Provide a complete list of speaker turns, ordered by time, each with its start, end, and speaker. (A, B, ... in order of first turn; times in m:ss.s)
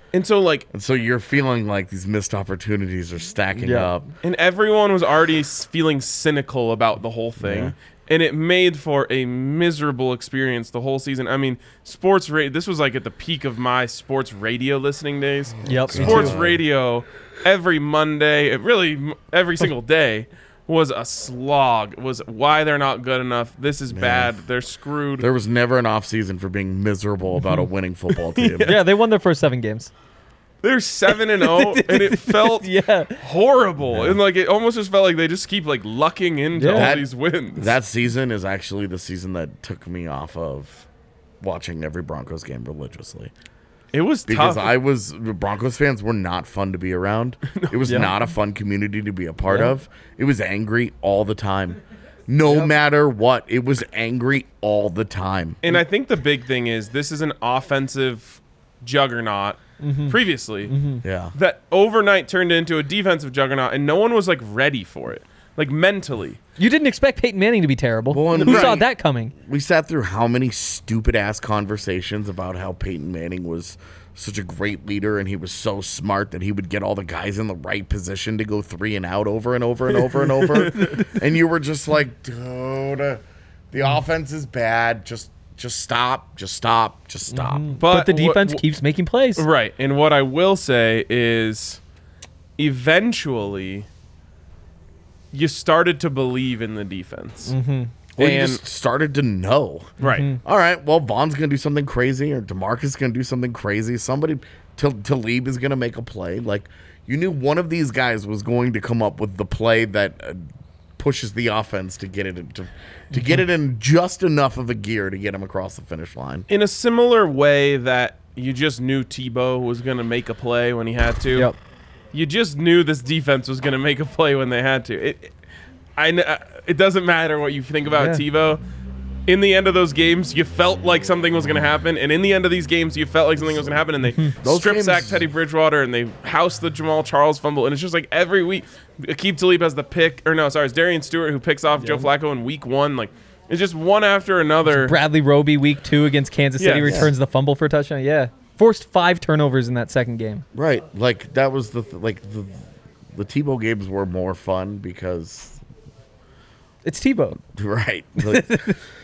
0:00.1-0:00.7 A
0:00.7-0:04.1 B
0:03.6-0:03.9 C
0:04.2-0:25.3 A
0:07.4-0:07.7 B
0:15.6-0:16.4 C
0:15.6-0:16.6 B
0:23.9-0:24.4 B
0:25.2-0:28.8 B
0:28.3-0:28.8 A
0:28.6-0:29.9 C
0:30.6-0:37.7 A
0:31.4-0:33.2 C
0:33.8-0:34.2 B
0:36.6-0:36.9 C
0:36.7-0:40.9 B
0:41.4-0:43.3 B
0:43.9-0:44.7 A
0:44.3-0:55.6 B
0:49.5-0:49.7 C
0:52.4-0:52.7 C
0:55.6-1:00.8 A
0:59.8-1:01.0 C
1:01.0-1:01.3 B
1:01.3-1:06.4 A
1:06.6-1:09.3 C
1:08.1-1:27.7 B
1:08.4-1:08.8 A
1:20.5-1:20.9 A
1:27.3-1:29.4 C
1:27.8-1:28.6 A
1:29.4-1:31.8 A
1:32.6-1:33.9 A
1:35.3-1:37.5 A
1:37.5-1:37.9 C
1:38.2-1:56.5 B
1:38.2-1:38.6 A
1:40.0-1:40.3 A
1:40.0-1:40.4 C
1:56.5-2:01.5 A
2:02.1-2:05.3 A
2:06.0-2:08.6 A
2:08.0-2:08.2 C
2:09.3-2:25.0 A
2:14.4-2:15.2 B
2:21.8-2:22.1 C
2:24.7-2:30.4 C
2:26.6-2:27.1 A
2:26.8-2:27.1 B
2:30.5-2:35.6 B
2:36.8-2:37.4 C
2:37.4-2:38.7 B
2:38.2-2:38.8 C